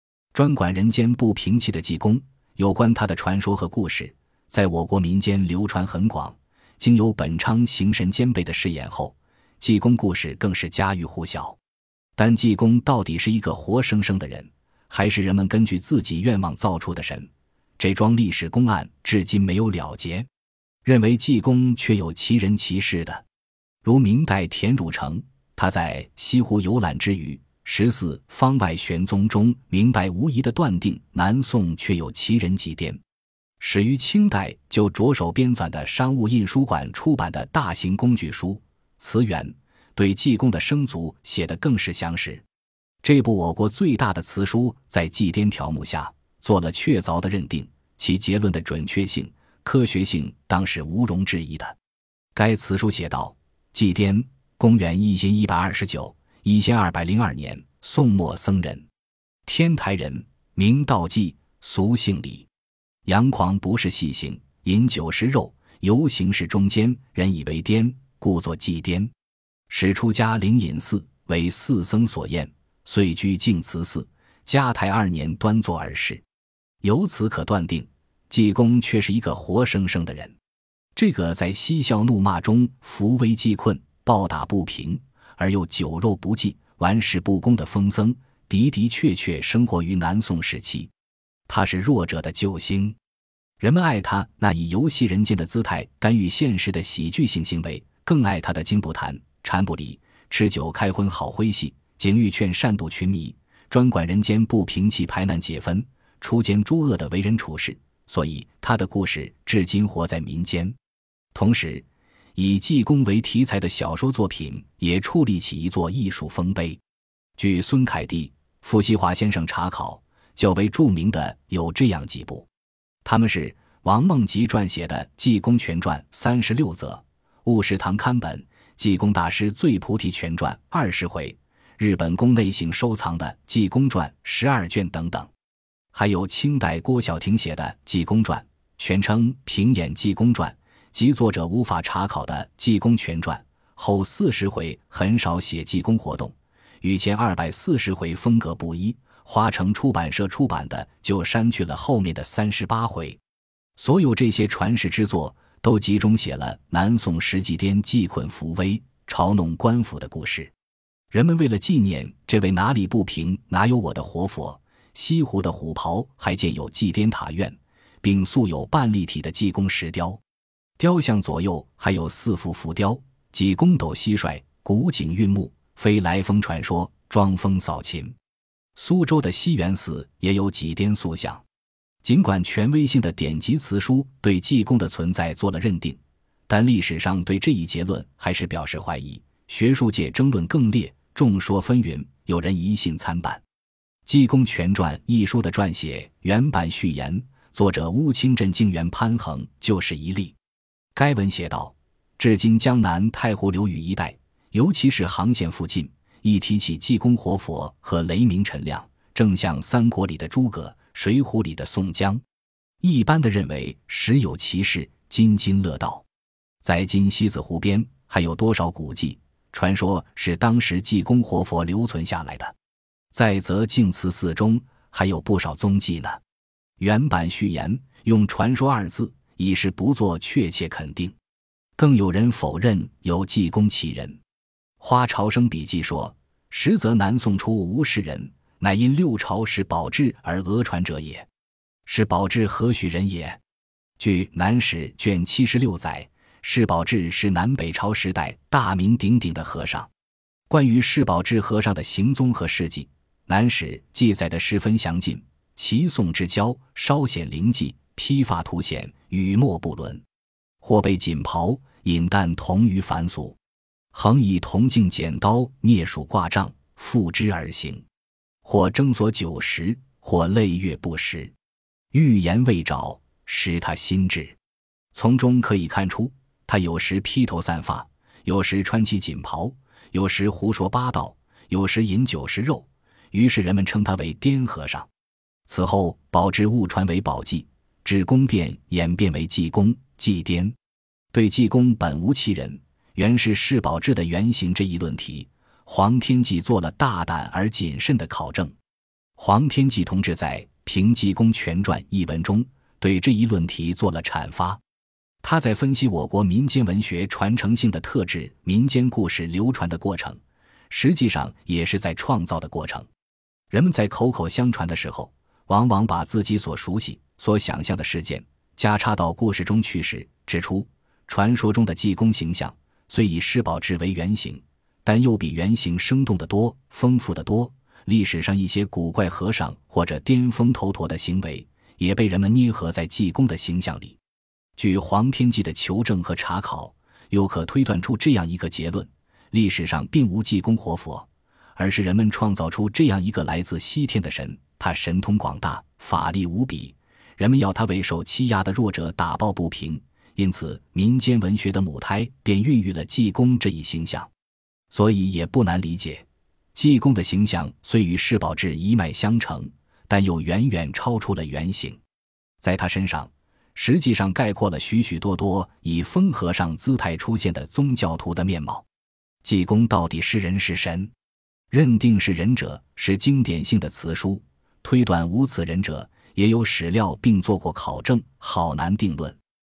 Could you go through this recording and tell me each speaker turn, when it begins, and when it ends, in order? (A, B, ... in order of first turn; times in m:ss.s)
0:00.3-0:11.6 A
0:12.2-0:20.3 A
0:20.8-0:23.2 A
0:23.8-0:33.0 A
0:33.6-0:42.4 A
0:43.0-0:51.8 A
0:52.4-0:58.9 A
0:59.5-1:02.5 A
1:03.0-1:09.1 A
1:09.7-1:16.2 A
1:16.8-1:20.4 A
1:21.0-1:30.9 A
1:31.5-1:33.0 A
1:33.6-1:50.8 A
1:51.3-1:56.8 A
1:57.4-2:02.5 A
2:03.0-2:15.3 A
2:15.9-2:33.2 A
2:33.8-2:40.5 A
2:41.1-2:50.2 A
2:50.8-2:58.2 A
2:58.8-3:01.4 A
3:02.0-3:13.4 A
3:14.1-3:20.4 A
3:21.0-3:32.2 A
3:32.8-3:36.0 A
3:36.6-3:42.6 A
3:43.1-3:46.2 A
3:46.8-3:51.2 A
3:51.8-3:54.2 A
3:54.8-4:01.3 A
4:01.9-4:03.4 A
4:04.0-4:09.9 A
4:10.5-4:20.0 A
4:20.6-4:23.4 A
4:23.9-4:27.9 A
4:28.4-4:31.3 A
4:31.9-4:34.4 A
4:34.9-4:44.9 A
4:45.5-4:50.6 A
4:51.1-4:58.6 A
4:59.2-5:04.6 A
5:05.2-5:12.9 A
5:13.5-5:34.0 A
5:34.6-5:54.1 A
5:54.7-6:01.8 A
6:02.4-6:08.6 A
6:09.2-6:10.9 A
6:11.5-6:19.2 A